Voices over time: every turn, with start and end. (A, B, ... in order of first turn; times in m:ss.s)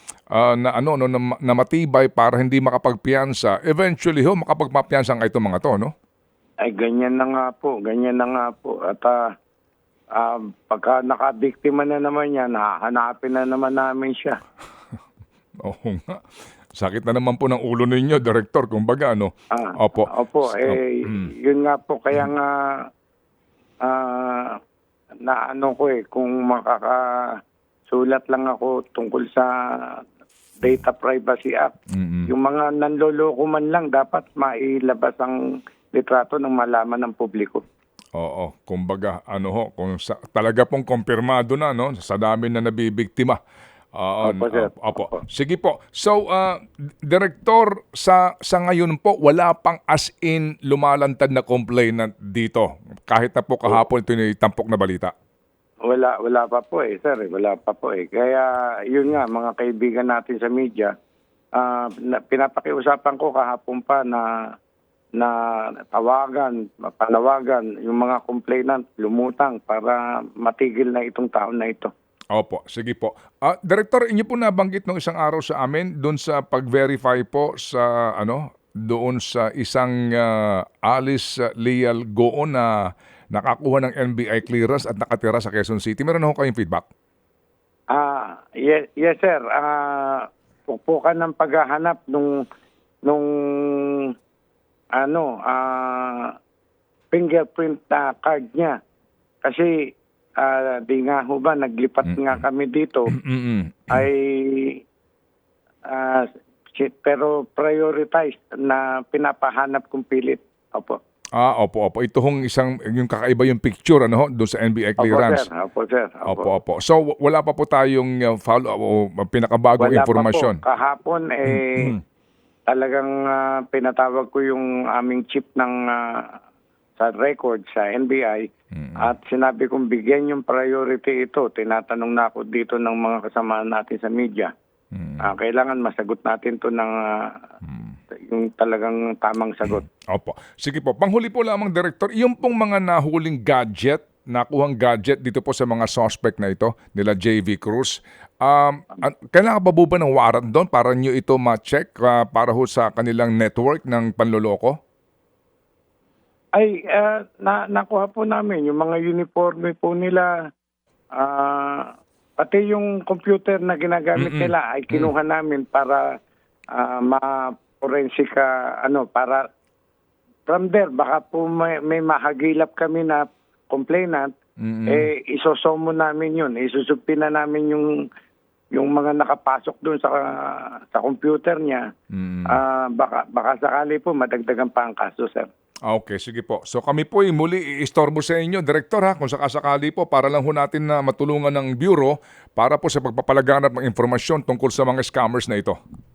0:00.3-0:05.9 A
0:06.6-0:09.2 B
0:10.2-0:14.4 B
0:15.6-0:21.3 A
0:19.5-0:22.8 B
0:23.8-0:24.6 B
0:25.2-0:27.3 B
0:27.9-0:30.0 B
0:30.6-0:31.7 B
0:31.9-0:32.3 A
0:32.3-0:35.4 B
0:35.9-0:37.6 B
0:38.2-0:43.4 A
0:43.9-0:55.1 A
0:44.2-0:45.2 B
0:55.9-1:00.9 B
1:01.6-1:04.3 B
1:05.2-1:11.9 B
1:12.3-1:22.7 A
1:23.3-1:26.9 A
1:27.9-1:32.4 B
1:33.1-1:34.1 B
1:35.0-1:36.3 B
1:37.1-1:38.8 B
1:39.4-1:39.7 B
1:40.4-1:43.1 B
1:42.1-1:42.4 A
1:43.1-1:44.0 A
1:43.9-1:44.8 B
1:45.9-1:51.0 B
1:51.4-1:55.4 A
1:55.0-1:56.5 B
1:56.2-2:00.6 A
1:59.8-2:01.9 B
2:01.5-2:02.0 A
2:02.7-2:06.4 B
2:07.0-2:08.4 B
2:08.7-2:09.1 A
2:09.0-2:14.5 B
2:14.9-2:15.3 A
2:15.2-2:17.4 B
2:17.6-2:18.0 A
2:18.3-2:19.9 B
2:20.1-2:34.8 A
2:36.6-2:40.3 B
2:41.2-2:46.0 B
2:44.2-2:45.1 A
2:46.7-2:49.4 B
2:50.5-2:54.3 B
2:54.6-2:55.1 A
2:54.9-2:57.9 B
2:58.7-3:01.8 B
3:02.1-3:02.6 A
3:02.5-3:05.5 B
3:05.9-3:15.8 A